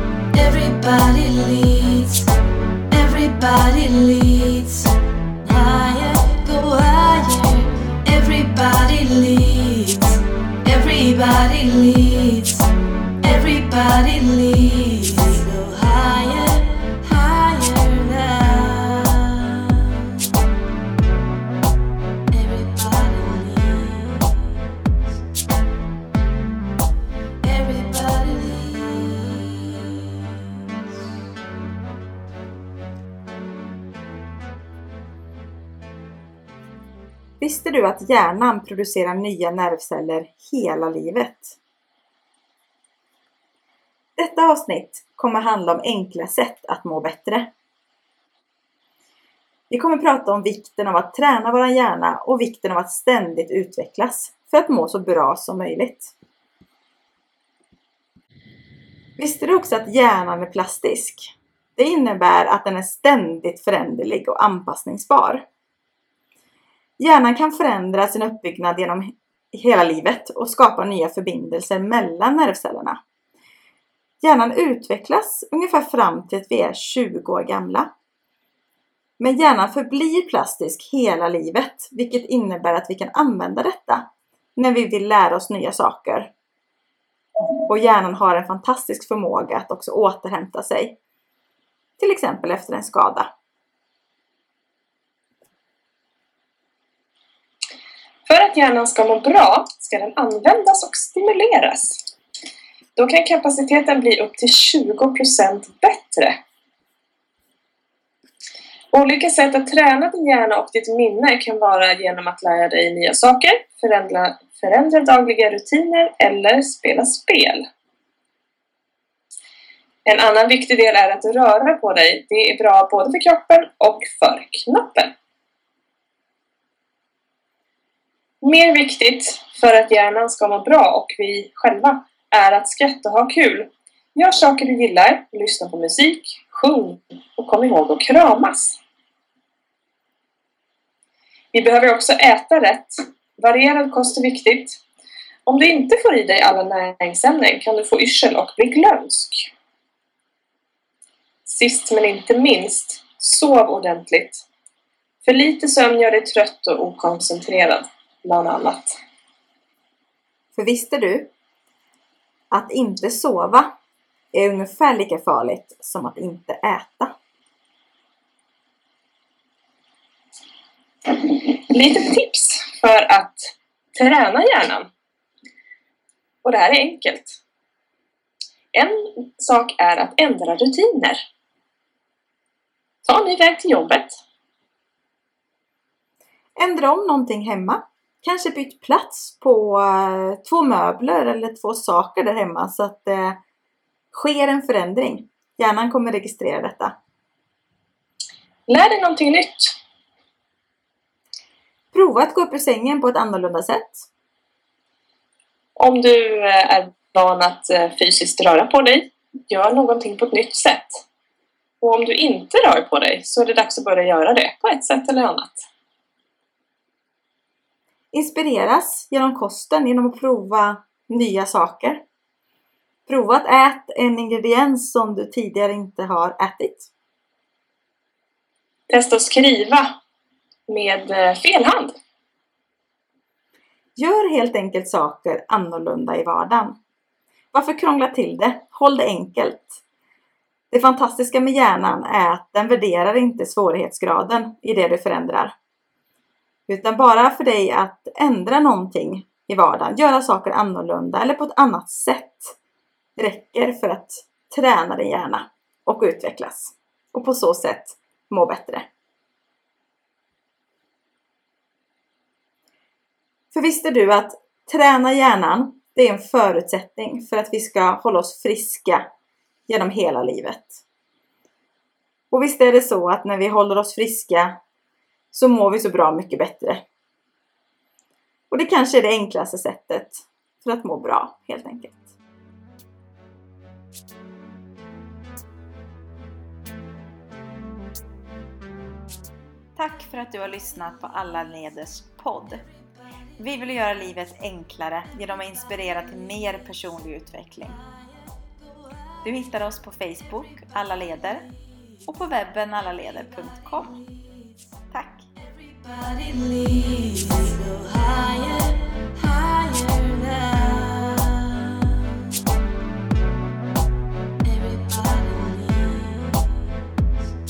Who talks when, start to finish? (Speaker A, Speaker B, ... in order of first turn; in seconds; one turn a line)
Speaker A: 0.3-2.3
Speaker A: 2.9-12.7
Speaker A: 13.2-20.3
Speaker A: 22.3-24.7
Speaker A: 27.4-30.4
Speaker B: 37.4-41.6
Speaker B: 44.2-47.5
Speaker B: 49.7-56.1
Speaker B: 59.2-65.4
Speaker B: 67.0-73.0
Speaker B: 74.2-77.9
Speaker B: 79.2-84.0
Speaker B: 84.5-86.3
Speaker B: 87.7-91.0
Speaker B: 92.0-93.3
Speaker C: 98.2-102.0
Speaker C: 102.9-106.4
Speaker C: 108.9-117.6
Speaker C: 120.0-125.1
Speaker C: 128.4-138.8
Speaker C: 141.5-144.8
Speaker C: 145.5-149.5
Speaker C: 151.5-154.5
Speaker C: 155.2-159.0
Speaker B: 160.6-161.3
Speaker B: 162.5-163.7
Speaker B: 164.3-167.1
Speaker C: 171.1-174.9
Speaker C: 176.4-177.4
Speaker C: 178.7-181.2
Speaker C: 183.0-184.1
Speaker B: 186.6-193.4
Speaker B: 194.1-196.9
Speaker C: 198.7-199.8
Speaker B: 201.9-204.1
Speaker C: 205.8-211.1
Speaker C: 211.8-215.7
Speaker B: 218.1-222.0
Speaker B: 223.1-226.9
Speaker C: 228.9-229.9
Speaker C: 230.7-232.0
Speaker B: 234.0-236.8
Speaker B: 237.5-239.8
Speaker B: 240.7-245.6
Speaker B: 246.7-252.6
Speaker B: 253.2-258.9
Speaker B: 263.5-269.1
Speaker B: 269.7-270.8
Speaker B: 272.3-274.6
Speaker B: 275.3-276.8
Speaker B: 278.5-282.1
Speaker B: 289.8-292.7
Speaker B: 293.4-297.8
Speaker B: 299.2-301.5
Speaker B: 302.1-304.0
Speaker B: 304.9-305.3
Speaker A: 305.8-312.2
Speaker A: 314.5-316.7